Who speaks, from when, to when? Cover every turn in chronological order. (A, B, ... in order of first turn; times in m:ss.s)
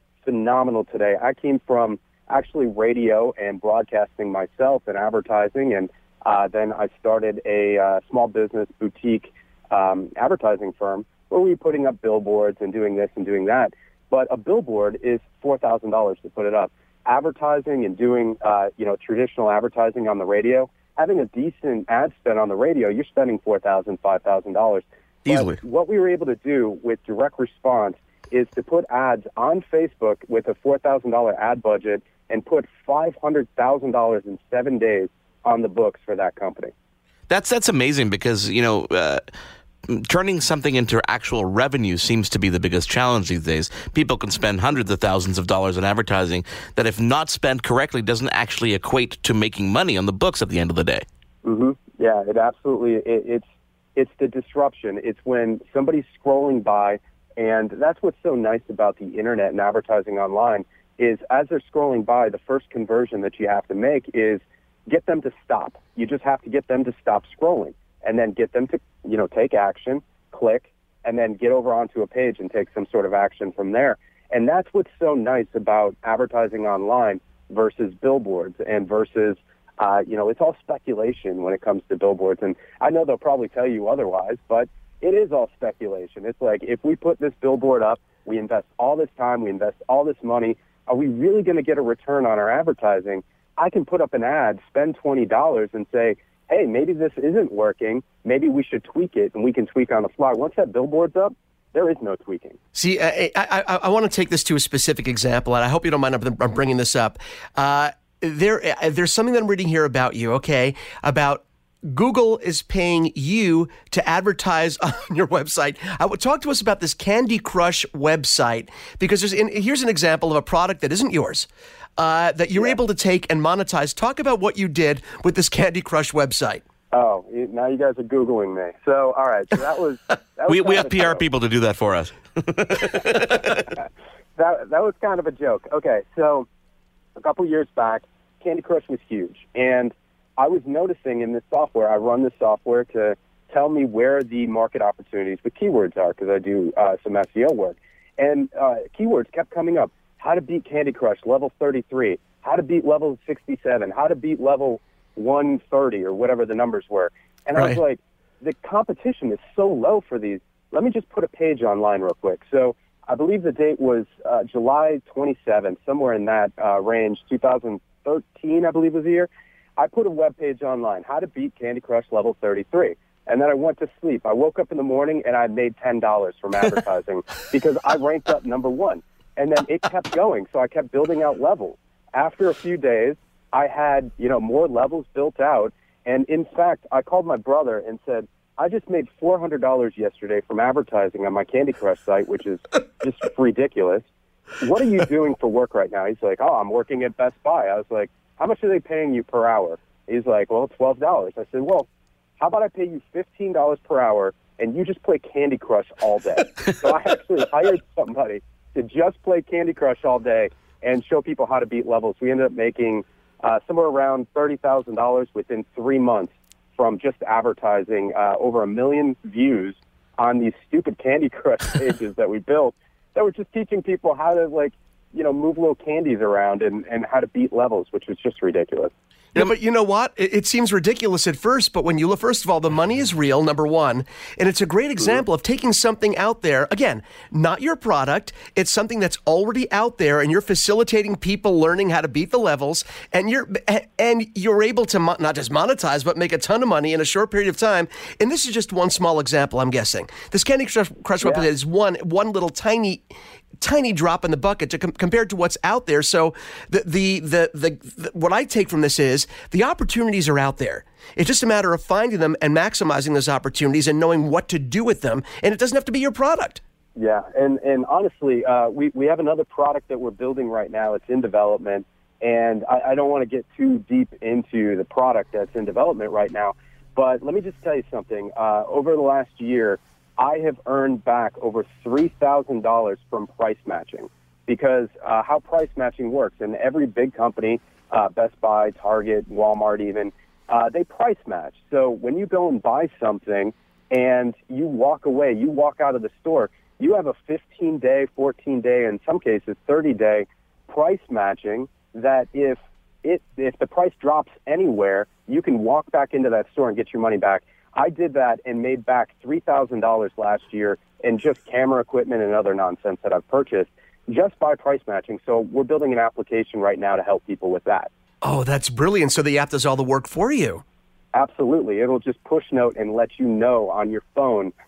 0:00.2-0:36.7 A
0:25.2-0:25.6 B
0:37.3-0:39.2 B
0:39.9-0:51.0 B
0:51.4-0:53.4 A
0:54.0-1:42.6 A
1:42.8-2:06.6 C
2:06.9-2:11.2 A
2:10.5-2:13.7 B
2:14.4-2:16.5 A
2:17.2-3:14.1 A
3:14.6-3:21.9 A
3:22.4-3:48.9 A
3:49.4-4:13.1 C
4:11.2-4:11.5 A
4:13.6-4:26.6 C
4:27.0-5:17.9 A
5:18.2-5:20.6 C
5:21.1-5:24.5 A